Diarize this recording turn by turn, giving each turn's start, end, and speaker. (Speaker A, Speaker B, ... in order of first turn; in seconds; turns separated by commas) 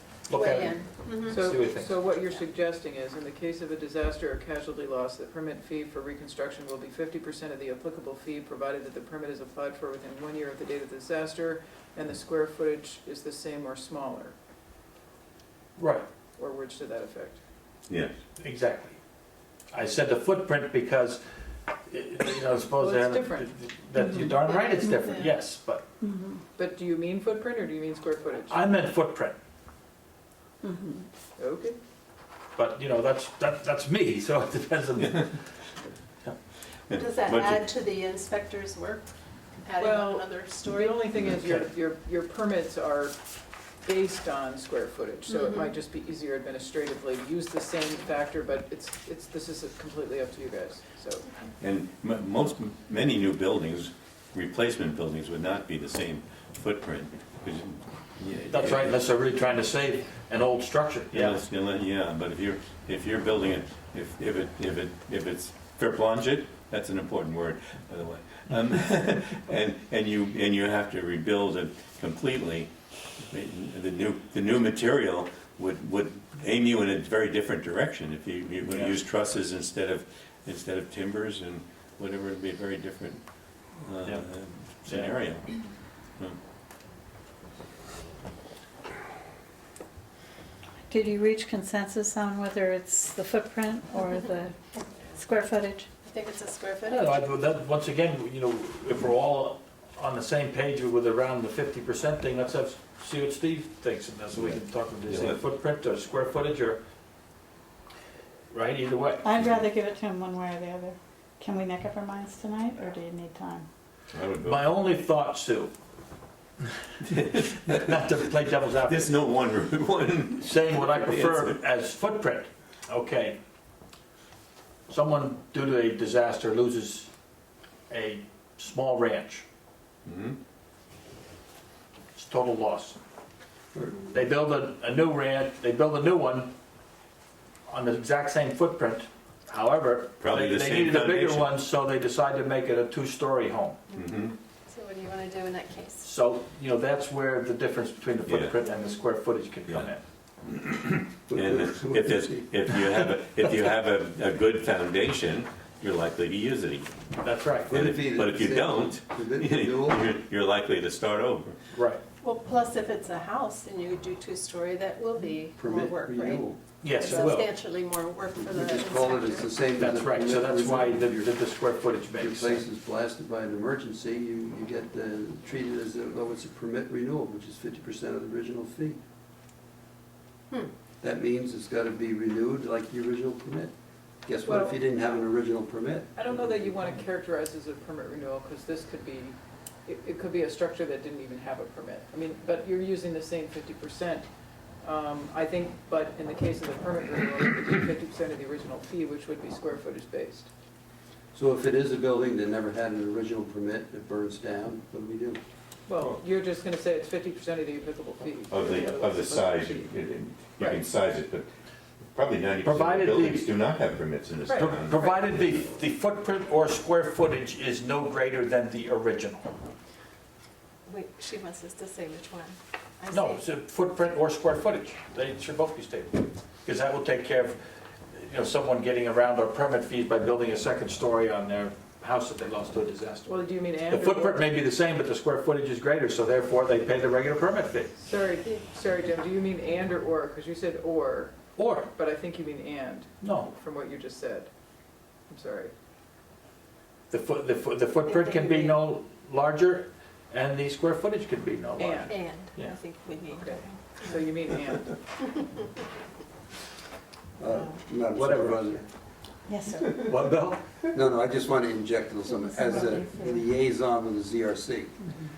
Speaker A: 0.3-2.0, Speaker B: 0.3-1.4, Speaker C: 1.3-14.3, Speaker A: 15.8-16.1, Speaker C: 16.4-17.4, Speaker D: 17.9-18.1, Speaker A: 18.4-19.0, Speaker A: 19.7-21.2, Speaker A: 21.9-25.9, Speaker C: 22.8-23.6, Speaker B: 24.4-25.3, Speaker E: 26.0-26.4, Speaker C: 26.6-28.7, Speaker A: 28.5-29.4, Speaker E: 30.6-31.1, Speaker C: 31.4-31.8, Speaker A: 32.6-35.4, Speaker D: 35.0-35.3, Speaker D: 37.0-37.6, Speaker B: 37.0-39.1, Speaker B: 39.6-41.1, Speaker C: 39.8-43.1, Speaker A: 41.4-41.7, Speaker C: 43.8-51.3, Speaker B: 45.3-45.7, Speaker D: 51.6-59.0, Speaker A: 58.5-61.4, Speaker D: 61.1-83.2, Speaker A: 78.7-78.9, Speaker D: 83.8-85.5, Speaker A: 84.8-85.2, Speaker E: 90.9-94.5, Speaker E: 95.2-95.9, Speaker B: 96.0-97.2, Speaker A: 96.9-106.8, Speaker D: 104.4-105.4, Speaker A: 108.5-109.3, Speaker E: 109.2-113.7, Speaker D: 114.1-114.8, Speaker A: 114.5-115.7, Speaker D: 117.1-117.9, Speaker A: 117.1-119.2, Speaker D: 118.8-121.6, Speaker A: 120.4-123.4, Speaker A: 124.9-127.1, Speaker A: 127.9-129.4, Speaker D: 130.1-130.4, Speaker A: 132.2-133.0, Speaker A: 134.1-136.5, Speaker A: 137.7-143.8, Speaker D: 140.2-141.6, Speaker D: 144.0-144.3, Speaker B: 144.7-146.0, Speaker A: 146.0-150.0, Speaker D: 148.3-148.6, Speaker F: 151.3-152.4, Speaker D: 151.3-157.0, Speaker A: 157.2-157.8, Speaker D: 157.7-161.6, Speaker F: 157.7-160.0, Speaker A: 161.7-162.0, Speaker B: 162.2-169.7, Speaker F: 165.6-166.6, Speaker A: 166.8-167.5, Speaker F: 168.4-171.5, Speaker A: 169.8-172.7, Speaker F: 172.2-179.0, Speaker F: 181.0-183.7, Speaker F: 184.2-187.0, Speaker C: 184.4-184.8, Speaker C: 186.2-194.3, Speaker C: 194.8-200.5, Speaker F: 201.3-205.4, Speaker C: 205.9-210.8, Speaker D: 208.5-211.5, Speaker D: 212.1-215.0, Speaker A: 212.6-213.5, Speaker A: 214.5-219.5, Speaker B: 220.9-223.4, Speaker A: 223.1-227.6, Speaker A: 228.2-233.3, Speaker C: 233.3-234.5, Speaker A: 233.9-238.0, Speaker C: 238.0-244.5, Speaker A: 241.6-241.9, Speaker A: 243.2-243.5, Speaker C: 245.3-245.7, Speaker A: 247.1-252.8, Speaker B: 248.1-248.8, Speaker C: 251.8-252.1, Speaker B: 252.1-253.8, Speaker C: 253.3-255.0, Speaker F: 257.4-258.9, Speaker A: 258.2-258.7, Speaker E: 259.5-259.9, Speaker A: 259.9-260.6, Speaker F: 260.9-265.0, Speaker B: 262.6-263.2